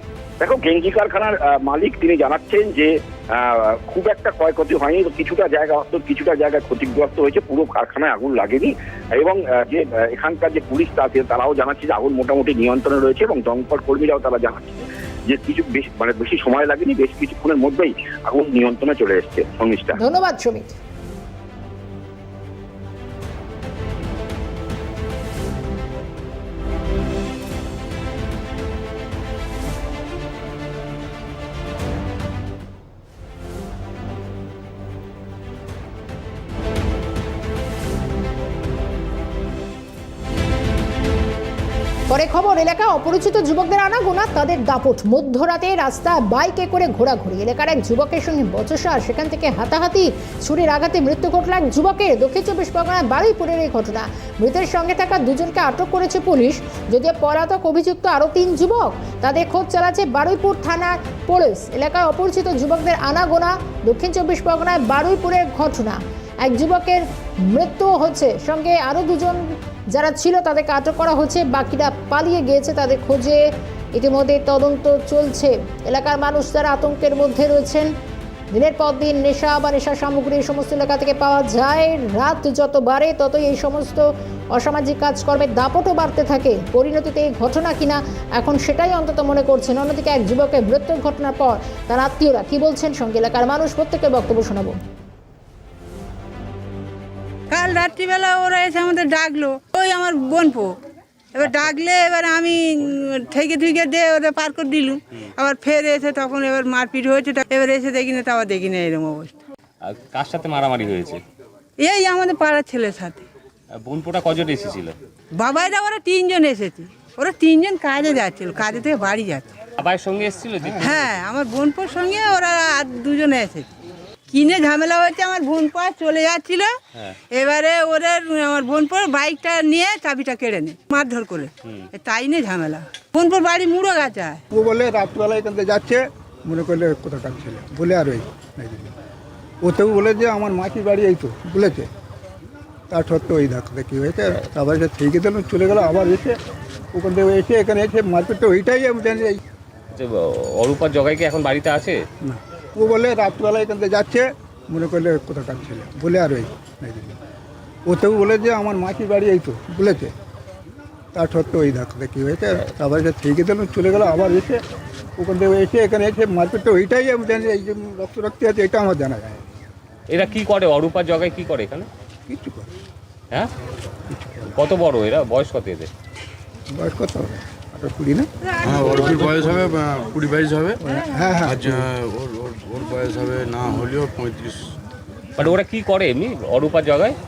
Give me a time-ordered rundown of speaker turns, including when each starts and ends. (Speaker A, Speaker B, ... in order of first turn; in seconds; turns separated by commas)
Speaker A: 0.4-19.9, Speaker B: 19.9-20.8, Speaker B: 42.1-73.4, Speaker B: 73.9-77.9, Speaker B: 78.5-94.8, Speaker C: 97.5-100.7, Speaker C: 101.4-109.4, Speaker D: 109.8-111.2, Speaker C: 111.8-113.3, Speaker D: 113.7-114.9, Speaker C: 115.4-119.5, Speaker D: 119.8-120.8, Speaker E: 120.6-121.1, Speaker C: 120.8-123.7, Speaker C: 124.3-126.7, Speaker C: 127.3-134.4, Speaker E: 134.5-138.9, Speaker E: 139.6-141.9, Speaker E: 142.9-146.3, Speaker E: 146.9-149.4, Speaker D: 149.9-152.0, Speaker E: 152.2-157.2, Speaker E: 157.9-160.1, Speaker E: 161.1-164.6, Speaker E: 165.2-169.4, Speaker D: 170.1-171.9, Speaker E: 172.3-172.7, Speaker E: 174.1-174.5, Speaker D: 174.5-175.9, Speaker E: 176.7-178.3, Speaker C: 178.5-179.4, Speaker F: 178.6-180.8, Speaker E: 180.8-181.9, Speaker F: 181.4-184.6, Speaker D: 185.4-187.2